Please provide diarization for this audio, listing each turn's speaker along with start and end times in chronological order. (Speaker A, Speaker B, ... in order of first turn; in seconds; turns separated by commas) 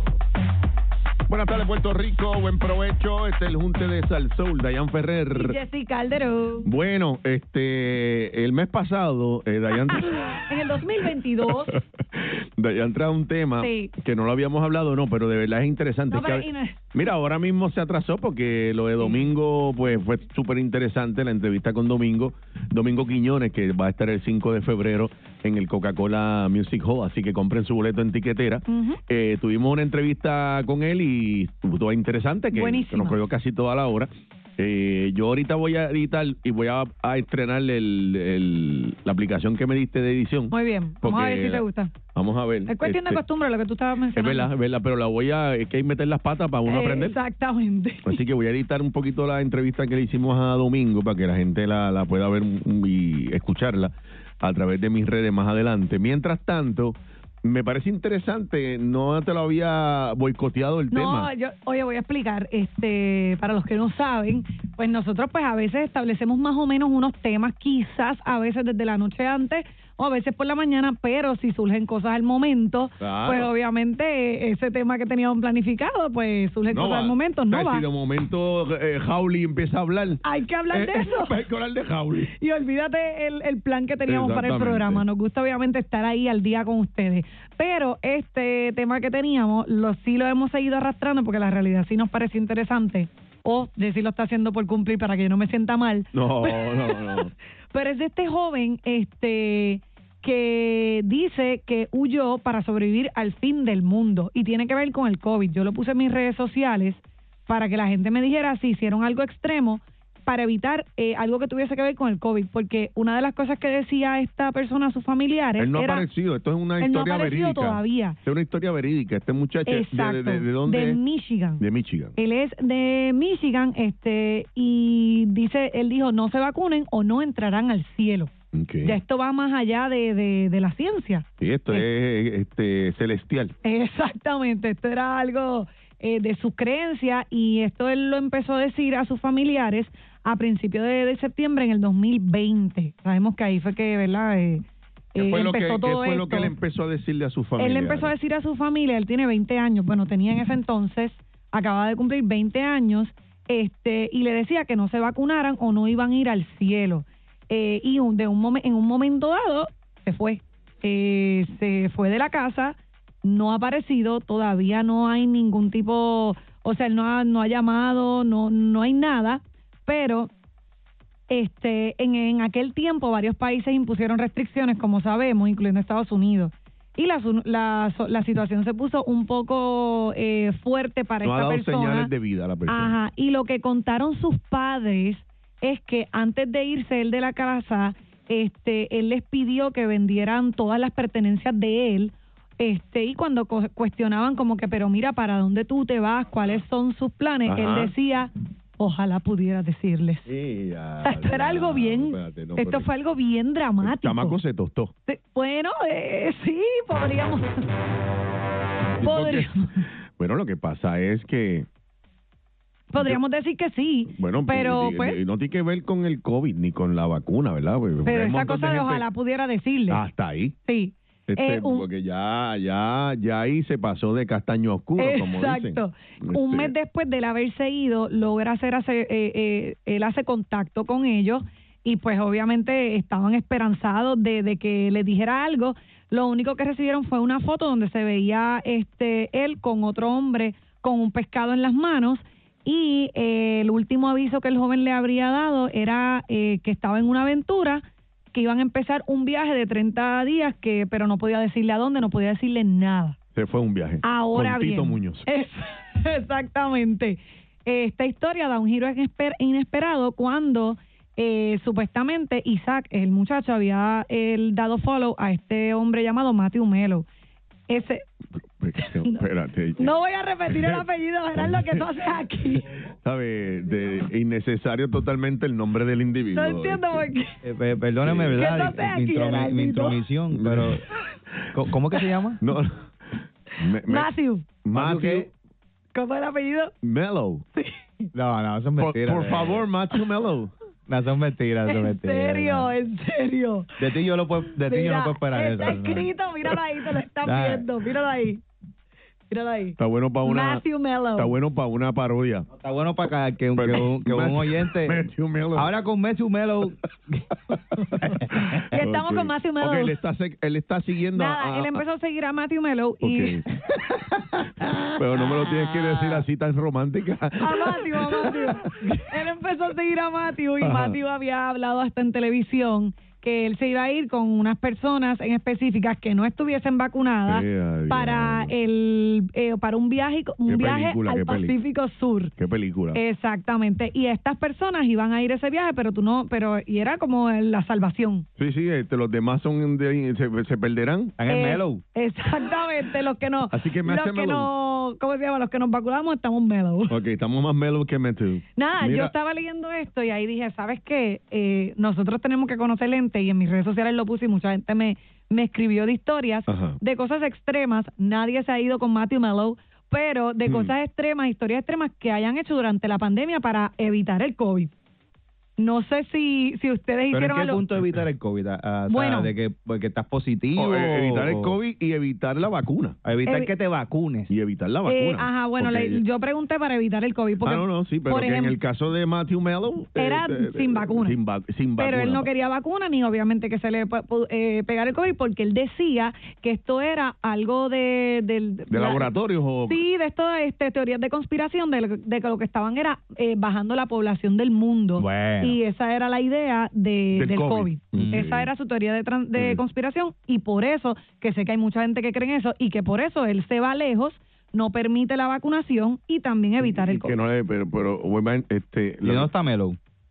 Speaker A: 1.3-5.6, Speaker B: 5.3-6.7, Speaker A: 6.6-10.4, Speaker B: 9.9-11.7, Speaker A: 11.7-43.2, Speaker B: 13.6-13.9, Speaker B: 16.1-16.8, Speaker B: 19.0-19.2, Speaker B: 28.7-29.0, Speaker B: 32.5-33.2, Speaker B: 40.5-41.9, Speaker B: 42.6-44.5, Speaker A: 44.1-47.2, Speaker B: 46.6-48.2, Speaker A: 48.0-61.3, Speaker B: 60.9-77.8, Speaker A: 73.0-73.5, Speaker A: 76.7-82.3, Speaker B: 80.2-81.3, Speaker B: 82.3-116.0, Speaker A: 84.1-85.0, Speaker A: 96.1-97.3, Speaker A: 115.6-121.0, Speaker B: 116.8-118.2, Speaker B: 119.7-121.6, Speaker A: 121.6-122.1, Speaker B: 122.2-128.3, Speaker A: 128.5-129.0, Speaker B: 128.8-131.9, Speaker A: 131.4-133.5, Speaker B: 133.6-144.6, Speaker B: 145.1-146.5, Speaker A: 145.2-148.1, Speaker B: 147.6-170.3, Speaker B: 171.3-182.1, Speaker A: 181.2-183.0, Speaker B: 182.7-200.3, Speaker A: 197.5-197.9, Speaker A: 200.3-202.9, Speaker B: 201.0-204.3, Speaker A: 203.8-204.9, Speaker B: 205.1-207.7, Speaker A: 209.0-209.6, Speaker B: 209.0-209.7, Speaker A: 210.2-211.7, Speaker B: 212.9-215.2, Speaker A: 214.1-219.0, Speaker B: 218.0-220.0, Speaker A: 219.9-220.6, Speaker B: 220.7-221.8, Speaker A: 221.3-226.7, Speaker B: 225.0-253.2, Speaker A: 253.3-255.3, Speaker B: 254.0-267.1, Speaker B: 267.7-268.0, Speaker A: 268.6-269.9, Speaker B: 268.8-269.2, Speaker B: 269.8-272.7, Speaker A: 270.5-270.8, Speaker A: 271.4-271.9, Speaker A: 273.0-277.0, Speaker B: 276.3-277.3, Speaker C: 277.4-280.8, Speaker A: 278.0-278.4, Speaker B: 278.3-280.0, Speaker A: 280.3-280.8, Speaker C: 281.5-282.4, Speaker A: 282.4-284.1, Speaker B: 283.9-284.4, Speaker A: 284.6-285.3, Speaker C: 284.7-285.3, Speaker B: 285.9-286.7, Speaker A: 286.8-287.4, Speaker B: 287.6-288.1, Speaker C: 288.1-289.7, Speaker A: 288.8-290.5, Speaker C: 290.9-292.7, Speaker B: 291.7-293.7, Speaker C: 293.8-296.1, Speaker B: 294.6-298.4, Speaker C: 297.2-297.7, Speaker B: 299.3-301.3, Speaker A: 299.8-302.5, Speaker C: 302.5-307.2, Speaker A: 303.6-305.7, Speaker A: 308.0-311.8, Speaker B: 308.7-309.9, Speaker B: 311.1-313.4, Speaker A: 313.0-313.5, Speaker A: 314.9-319.1, Speaker B: 315.4-316.2, Speaker B: 317.4-332.3, Speaker A: 320.6-321.0, Speaker A: 327.2-328.5, Speaker A: 330.5-331.6, Speaker A: 332.4-333.0, Speaker B: 332.9-338.2, Speaker A: 338.4-341.1, Speaker C: 341.2-341.8, Speaker B: 341.3-347.0, Speaker A: 343.5-344.5, Speaker A: 346.9-349.1, Speaker B: 348.6-364.7, Speaker A: 356.5-356.8, Speaker A: 360.5-360.7, Speaker B: 365.6-367.6, Speaker C: 367.1-371.6, Speaker B: 368.9-369.3, Speaker A: 370.6-373.0, Speaker C: 373.0-374.3, Speaker B: 373.2-373.5, Speaker A: 374.3-376.0, Speaker B: 374.9-378.6, Speaker A: 377.4-382.3, Speaker B: 380.0-381.1, Speaker B: 381.8-389.1, Speaker A: 388.7-389.8, Speaker B: 389.7-407.1, Speaker C: 395.0-395.6, Speaker A: 397.1-398.5, Speaker C: 397.9-398.2, Speaker A: 406.6-409.3, Speaker C: 409.0-409.8